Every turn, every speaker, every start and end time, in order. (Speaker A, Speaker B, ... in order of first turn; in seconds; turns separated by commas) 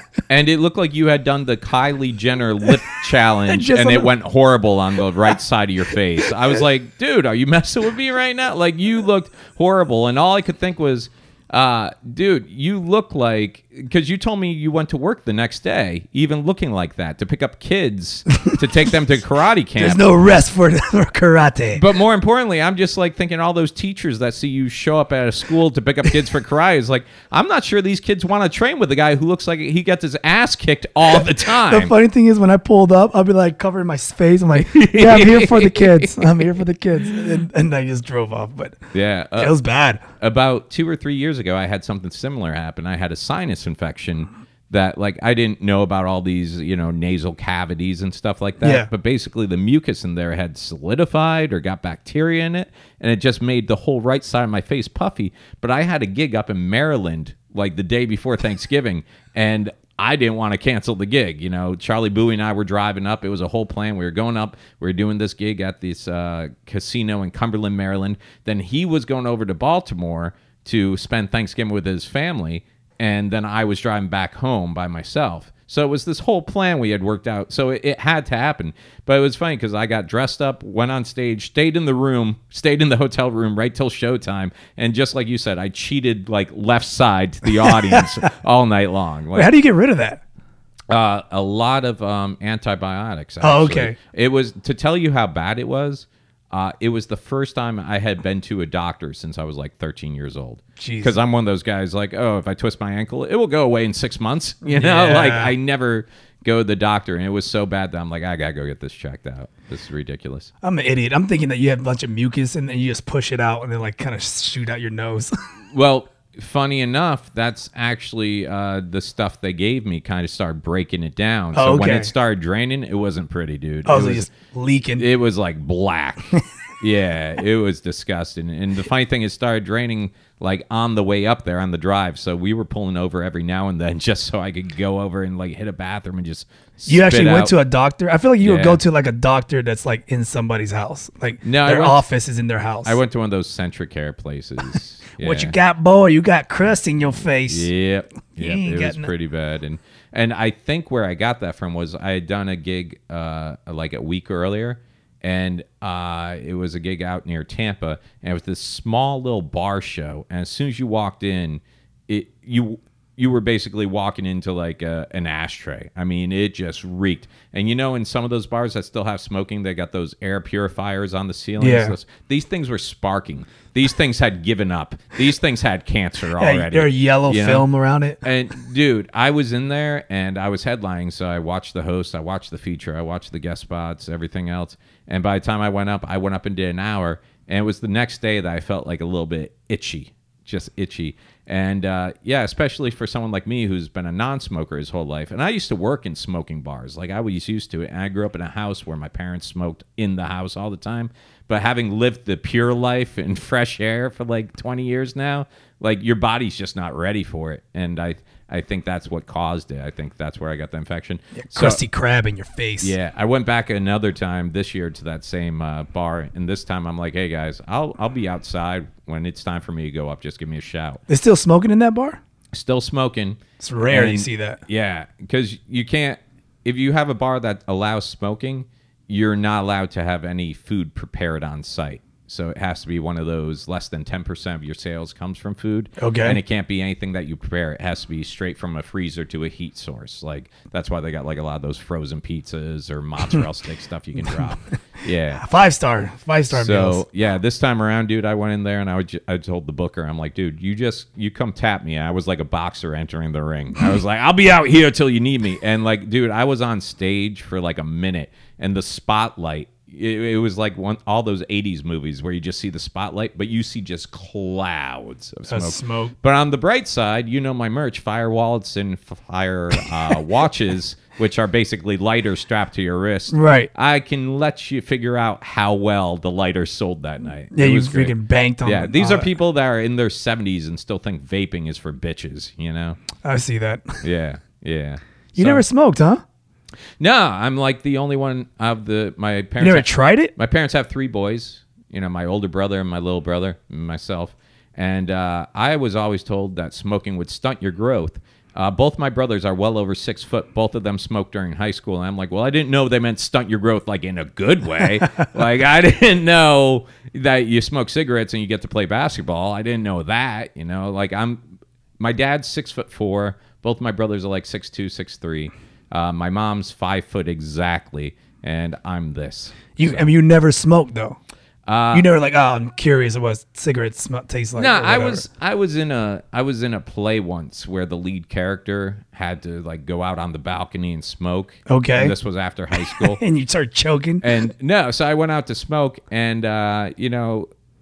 Speaker A: 0.3-20.1, Speaker B: 3.5-4.1, Speaker B: 18.3-18.6, Speaker B: 19.8-21.8, Speaker A: 21.8-31.9, Speaker B: 31.1-38.8, Speaker A: 34.7-36.5, Speaker A: 38.9-39.5, Speaker B: 39.4-40.0, Speaker A: 40.2-89.5, Speaker B: 48.6-48.9, Speaker B: 87.6-88.2, Speaker B: 89.3-90.2, Speaker A: 90.9-110.5, Speaker B: 93.4-94.0, Speaker B: 100.8-101.2, Speaker B: 104.6-105.5, Speaker B: 110.6-115.3, Speaker A: 115.7-124.3, Speaker B: 121.5-122.1, Speaker B: 123.8-125.1, Speaker A: 125.0-137.5, Speaker B: 136.9-143.0, Speaker A: 138.4-138.8, Speaker A: 141.4-142.1, Speaker A: 142.8-145.5, Speaker B: 145.2-147.7, Speaker A: 147.4-177.7, Speaker B: 148.4-149.1, Speaker B: 171.6-171.9, Speaker B: 176.3-178.2, Speaker A: 178.2-211.8, Speaker B: 211.4-212.9, Speaker A: 212.8-221.0, Speaker B: 221.1-222.2, Speaker A: 222.5-245.4, Speaker B: 223.6-224.6, Speaker B: 236.0-236.4, Speaker B: 244.2-244.6, Speaker B: 245.3-247.0, Speaker A: 246.5-283.0, Speaker B: 265.5-266.1, Speaker B: 273.3-273.7, Speaker B: 277.5-279.3, Speaker B: 283.2-284.0, Speaker A: 284.0-285.6, Speaker B: 285.3-286.2, Speaker A: 287.0-311.4, Speaker B: 289.6-290.3, Speaker A: 312.0-320.1, Speaker B: 319.8-321.2, Speaker A: 321.6-322.1, Speaker B: 321.9-325.2, Speaker A: 324.6-333.2, Speaker B: 331.7-332.1, Speaker B: 332.8-334.3, Speaker A: 334.2-337.5